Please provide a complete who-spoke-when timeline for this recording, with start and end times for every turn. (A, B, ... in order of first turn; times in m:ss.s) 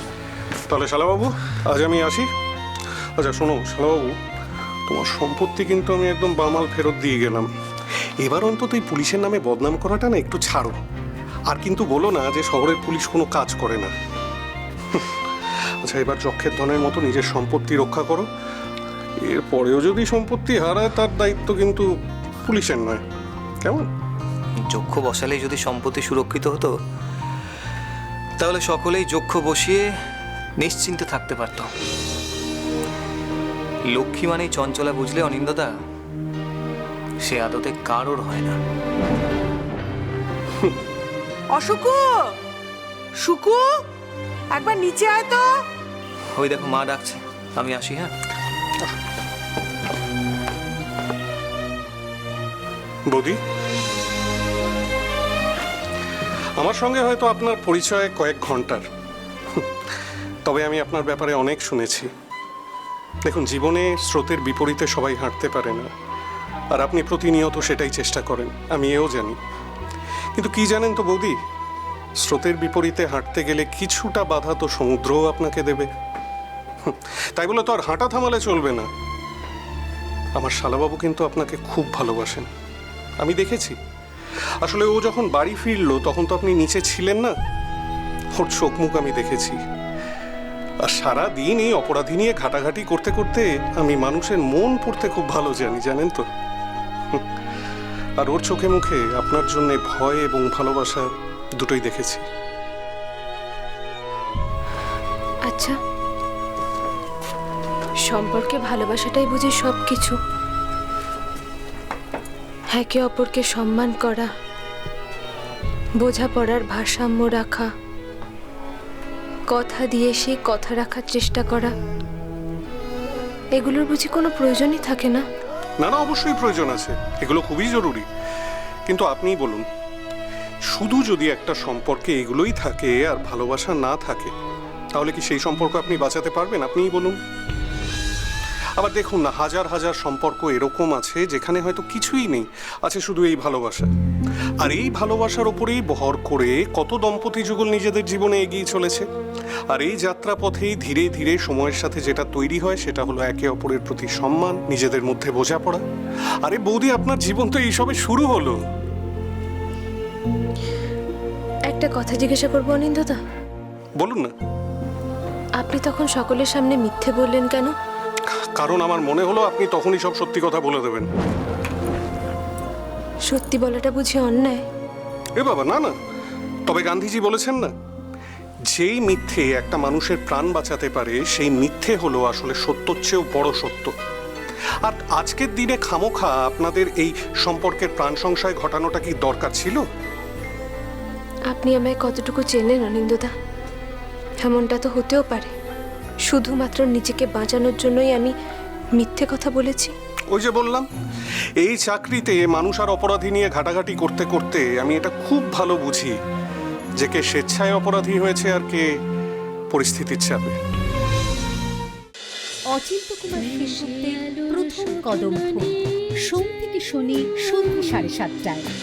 0:00.7-0:02.3 A
0:03.2-0:04.2 A
0:04.9-0:07.5 A
0:08.2-0:10.8 A
0:11.5-0:13.9 A
0:15.8-0:18.3 A
0:19.2-0:21.9 A
0:22.4-0:23.0 A
0:24.6-0:26.7 B
0:28.4-0:29.9 B
0:30.6-0:31.7 B
0:33.9-0:35.7 B
0:37.2-0:38.6 B
0:41.5-0:42.4 C
0:43.2-0:43.8 C
0:44.5-0:45.6 C
0:46.3-0:48.1 B
0:53.1-0:53.4 A
0:56.6-0:58.8 A
1:00.4-1:02.1 A
1:03.2-1:05.9 A
1:06.7-1:09.4 A
1:10.4-1:11.4 A
1:12.2-1:15.9 A
1:16.8-1:18.9 A
1:20.4-1:22.5 A
1:23.2-1:23.8 A
1:24.6-1:27.3 A
1:28.4-1:29.6 A
1:30.8-1:36.2 A
1:38.2-1:42.2 A
1:45.5-1:45.8 D
1:48.1-1:50.1 D
1:52.7-1:54.3 D
1:56.0-1:57.7 D
1:59.5-2:01.7 D
2:03.6-2:05.2 D
2:05.8-2:08.0 A
2:08.9-2:09.6 A
2:10.7-2:14.3 A
2:15.0-2:17.2 A
2:18.8-2:23.9 A
2:24.6-2:29.1 A
2:29.7-2:35.8 A
2:36.4-2:38.6 A
2:41.7-2:43.2 D
2:44.0-2:44.3 A
2:45.6-2:47.7 D
2:48.5-2:51.1 A
2:53.3-2:54.6 D
2:55.4-2:55.9 A
2:56.7-2:57.7 A
2:58.7-3:03.9 A
3:04.8-3:09.8 A
3:11.5-3:13.3 D
3:14.4-3:15.5 D
3:16.3-3:18.3 D
3:19.0-3:19.9 D
3:20.3-3:20.9 A
3:21.6-3:26.2 A
3:27.0-3:28.8 A
3:29.7-3:30.6 A
3:32.7-3:38.7 E